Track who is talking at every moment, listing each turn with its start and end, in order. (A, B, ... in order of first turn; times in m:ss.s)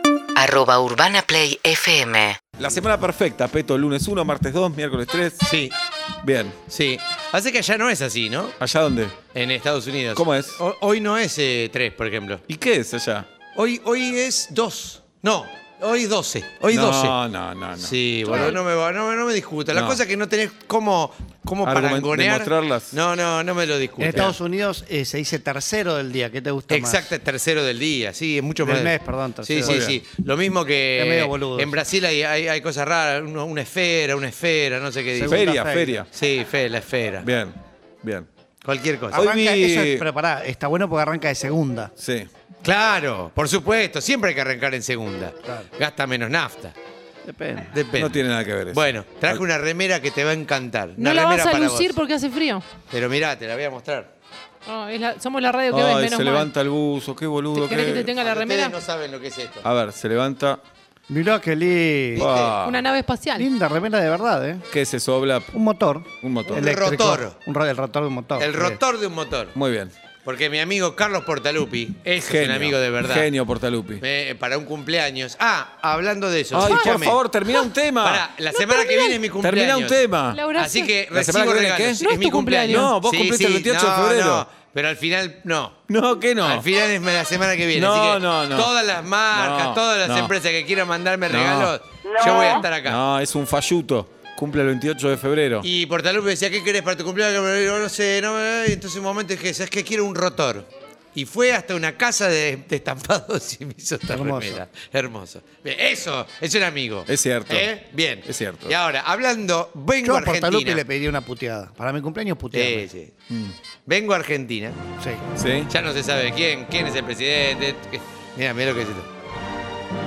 0:00.3-0:02.4 A
0:02.6-0:05.4 B
0:05.4-0:05.7 C
0:06.2-0:06.6 B
0:06.7-0:08.6 C
0:08.6-0:09.2 B
0:09.3-0:12.4 C
0:10.1-0:10.6 B
0:12.5-0:13.3 B
0:13.5-0:17.2 C
0:16.7-0:18.5 B
0:17.8-0:24.3 C
0:19.7-0:20.0 B
0:21.6-0:23.0 B
0:24.0-0:27.1 D
0:26.7-0:35.6 C
0:28.6-0:29.9 D
0:29.6-0:30.0 B
0:31.0-0:31.8 D
0:35.1-0:36.0 D
0:35.3-0:36.1 B
0:36.1-0:37.3 C
0:37.2-0:38.3 B
0:38.6-0:39.3 C
0:39.1-0:41.9 D
0:39.1-0:40.0 B
0:42.0-0:42.3 B
0:42.6-0:46.7 C
0:47.2-0:47.7 D
0:47.7-0:51.9 C
0:47.9-0:49.4 B
0:51.0-0:52.6 E
0:52.9-0:54.1 C
0:54.6-0:56.5 E
0:55.7-0:58.1 B
0:57.5-0:58.7 E
0:58.1-0:59.6 C
0:59.6-1:00.6 B
1:01.1-1:02.3 D
1:02.1-1:02.8 C
1:02.2-1:02.6 B
1:02.6-1:03.5 E
1:03.4-1:04.6 D
1:04.7-1:05.5 B
1:05.5-1:08.8 D
1:06.2-1:06.7 B
1:06.5-1:07.4 C
1:08.4-1:09.5 C
1:09.5-1:09.9 B
1:10.2-1:13.3 C
1:12.2-1:14.0 B
1:14.0-1:17.2 C
1:16.5-1:18.3 B
1:16.5-1:17.7 E
1:18.0-1:25.8 C
1:18.5-1:19.2 E
1:19.4-1:20.4 B
1:20.3-1:20.9 E
1:21.1-1:22.0 B
1:22.0-1:22.9 E
1:22.6-1:24.4 B
1:25.9-1:26.6 B
1:26.4-1:33.0 C
1:27.7-1:28.7 B
1:29.3-1:30.3 B
1:31.3-1:35.7 B
1:35.6-1:50.8 C
1:44.1-1:44.6 D
1:47.1-1:47.7 B
1:48.2-1:48.8 B
1:50.0-1:52.9 D
1:52.5-1:53.1 C
1:53.9-1:54.8 C
1:55.3-1:55.7 B
1:55.7-1:59.1 C